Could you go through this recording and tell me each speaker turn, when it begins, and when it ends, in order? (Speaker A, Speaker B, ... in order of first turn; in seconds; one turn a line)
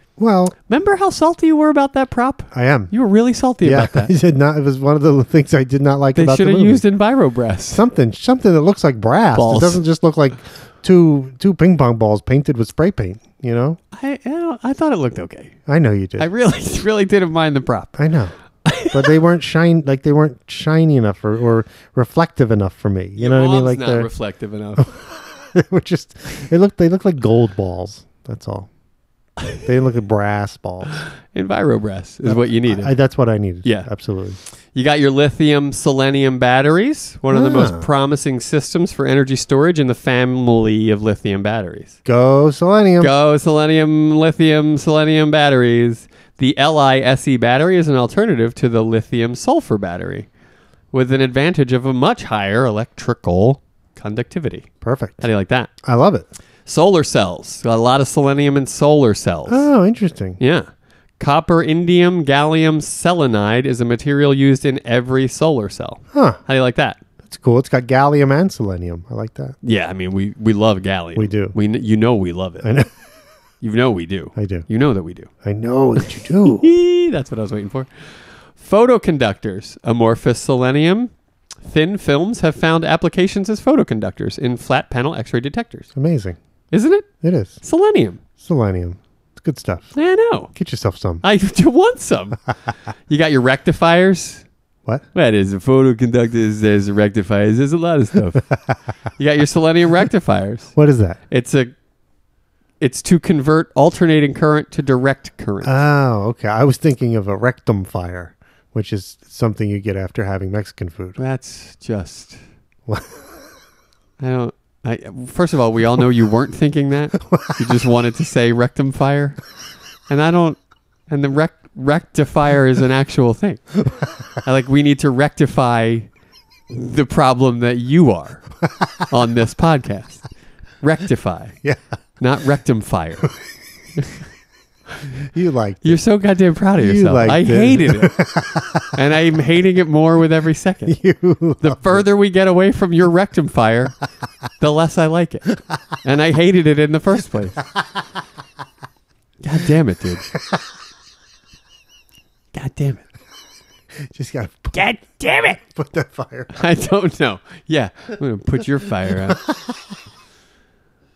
Speaker A: 0.2-0.5
Speaker B: 0.7-4.1
Speaker A: 2.5-2.9
Speaker A: 3.6-6.8
Speaker B: 6.1-7.8
Speaker A: 7.7-13.8
Speaker B: 9.3-9.8
Speaker B: 13.9-15.6
Speaker A: 15.7-16.3
Speaker B: 16.2-17.9
Speaker A: 17.9-18.3
Speaker B: 18.6-19.1
Speaker A: 18.8-24.1
Speaker B: 23.2-24.9
Speaker A: 24.8-28.7
Speaker A: 29.6-31.0
Speaker B: 31.3-32.9
Speaker A: 32.2-34.4
Speaker B: 34.7-42.0
Speaker A: 37.3-37.9
Speaker A: 42.0-43.1
Speaker B: 43.0-50.3
Speaker B: 50.9-54.7
Speaker A: 54.8-55.2
Speaker B: 55.2-55.7
Speaker A: 55.8-56.3
Speaker B: 56.6-59.7
Speaker A: 59.5-60.4
Speaker B: 60.4-60.7
Speaker B: 61.2-67.0
Speaker A: 66.1-66.4
Speaker A: 67.2-69.5
Speaker B: 69.6-72.7
Speaker A: 71.2-71.5
Speaker A: 72.6-72.9
Speaker B: 73.6-75.3
Speaker A: 74.3-74.7
Speaker A: 75.4-76.7
Speaker B: 76.4-77.9
Speaker B: 78.6-81.1
Speaker B: 81.6-85.9
Speaker A: 85.9-86.4
Speaker B: 86.7-87.1
Speaker A: 87.2-87.6
Speaker B: 87.6-88.2
Speaker A: 88.4-89.9
Speaker B: 89.9-90.5
Speaker A: 90.5-91.2
Speaker B: 91.2-92.4
Speaker B: 93.1-94.4
Speaker B: 95.1-98.5
Speaker B: 99.2-100.7
Speaker A: 100.7-101.2
Speaker B: 101.3-101.7
Speaker B: 102.8-105.8
Speaker A: 105.6-111.2
Speaker B: 111.2-112.4
Speaker A: 112.9-113.1
Speaker B: 114.2-119.4
Speaker B: 120.1-123.8
Speaker B: 124.4-126.1
Speaker B: 126.7-128.4
Speaker B: 129.1-130.3
Speaker B: 130.8-131.6
Speaker B: 132.2-133.3
Speaker A: 135.2-136.0
Speaker B: 135.8-138.2
Speaker A: 136.8-138.9
Speaker B: 138.9-140.9
Speaker A: 140.8-142.0
Speaker B: 141.6-143.9
Speaker B: 144.6-147.6
Speaker B: 149.4-150.3
Speaker B: 152.5-153.0
Speaker A: 154.0-156.7
Speaker B: 154.7-155.6
Speaker B: 156.5-159.4
Speaker A: 159.3-159.8